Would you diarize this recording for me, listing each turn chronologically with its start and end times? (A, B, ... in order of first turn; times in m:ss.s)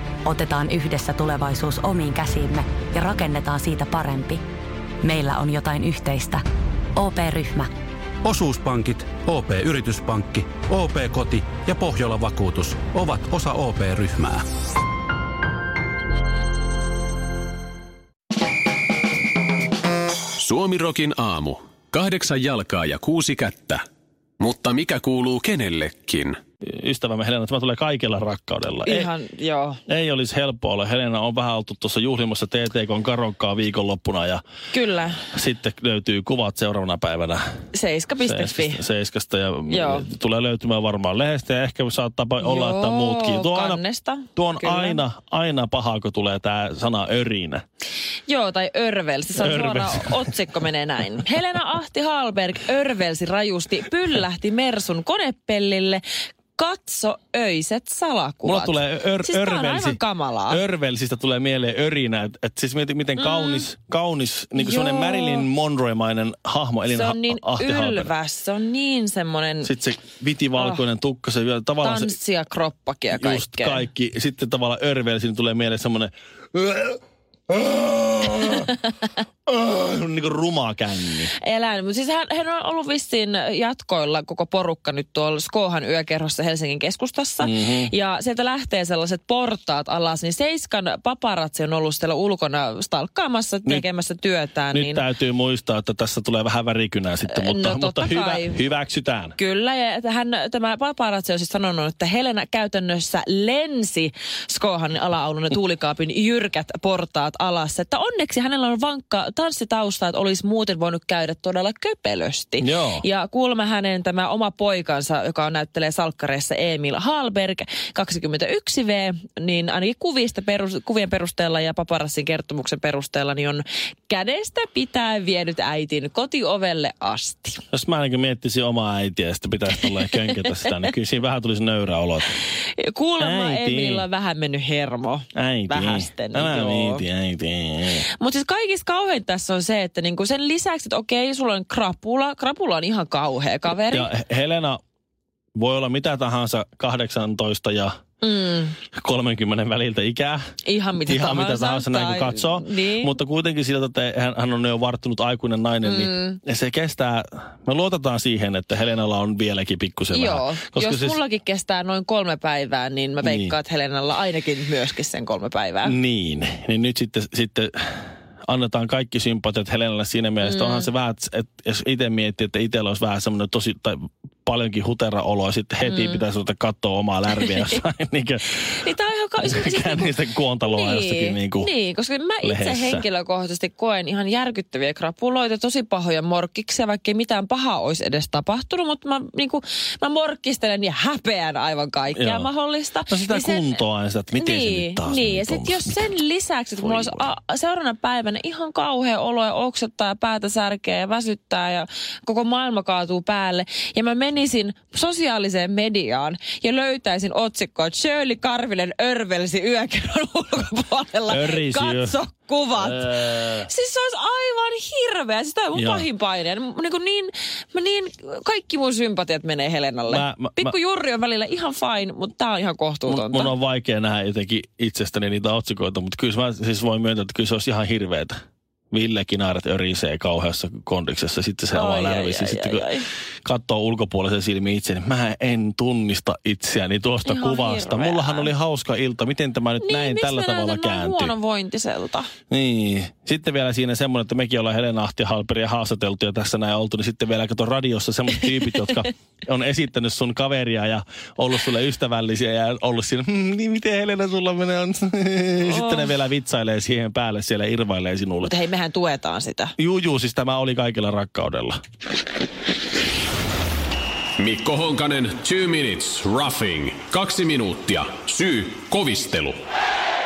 0:00.3-0:04.4 A
0:05.0-0:06.4 A
0:07.0-0:07.7 A
0:08.2-0:14.5 B
0:20.4-0:23.8 C
0:24.4-0:26.4 C
0:26.6-0:29.1 D
0:28.9-0:29.8 E
0:29.9-0:34.4 D
0:34.7-0:35.2 E
0:35.3-0:37.4 D
0:37.7-0:38.8 E
0:38.3-0:43.8 D
0:39.7-0:40.1 E
0:42.4-0:45.0 E
0:44.4-0:47.6 D
0:48.3-0:56.0 E
0:49.4-0:50.2 D
0:56.6-1:00.6 E
0:58.4-1:08.1 D
1:03.2-1:03.7 E
1:04.6-1:05.5 E
1:06.9-1:09.7 E
1:09.6-1:12.1 D
1:10.6-1:10.8 E
1:11.8-1:13.9 E
1:13.1-1:18.7 D
1:19.5-1:21.3 D
1:21.4-1:35.0 E
1:27.4-1:27.9 D
1:34.7-1:39.4 D
1:37.3-1:38.6 E
1:39.4-2:07.6 E
1:52.6-1:53.0 D
2:07.7-2:12.4 D
2:12.8-2:17.0 E
2:13.2-2:14.0 D
2:15.4-2:18.1 D
2:18.1-2:24.1 E
2:23.9-2:24.8 D
2:25.6-2:28.0 D
2:28.2-2:28.8 E
2:28.9-2:30.4 D
2:30.6-2:33.2 E
2:31.0-2:41.2 D
2:35.8-2:36.4 E
2:40.1-2:46.0 E
2:43.2-2:43.5 D
2:45.8-2:58.8 D
2:50.4-2:50.9 E
2:55.8-2:56.2 E
2:57.4-2:57.8 E
2:58.7-3:13.8 E
2:59.4-3:01.7 D
3:02.4-3:03.0 D
3:12.2-3:12.5 D
3:13.1-3:16.1 D
3:14.4-3:43.5 E
3:16.8-3:17.3 D
3:31.3-3:32.2 D
3:32.8-3:33.7 D
3:35.8-3:36.1 D
3:40.1-3:40.8 D
3:43.1-3:48.4 D
3:48.9-4:01.3 D
3:51.7-3:53.1 E
3:57.3-3:58.5 E
3:59.8-4:02.3 E
4:02.5-4:18.6 D
4:15.6-4:16.1 E
4:18.4-4:19.7 E
4:19.8-4:21.8 D
4:24.4-4:29.6 C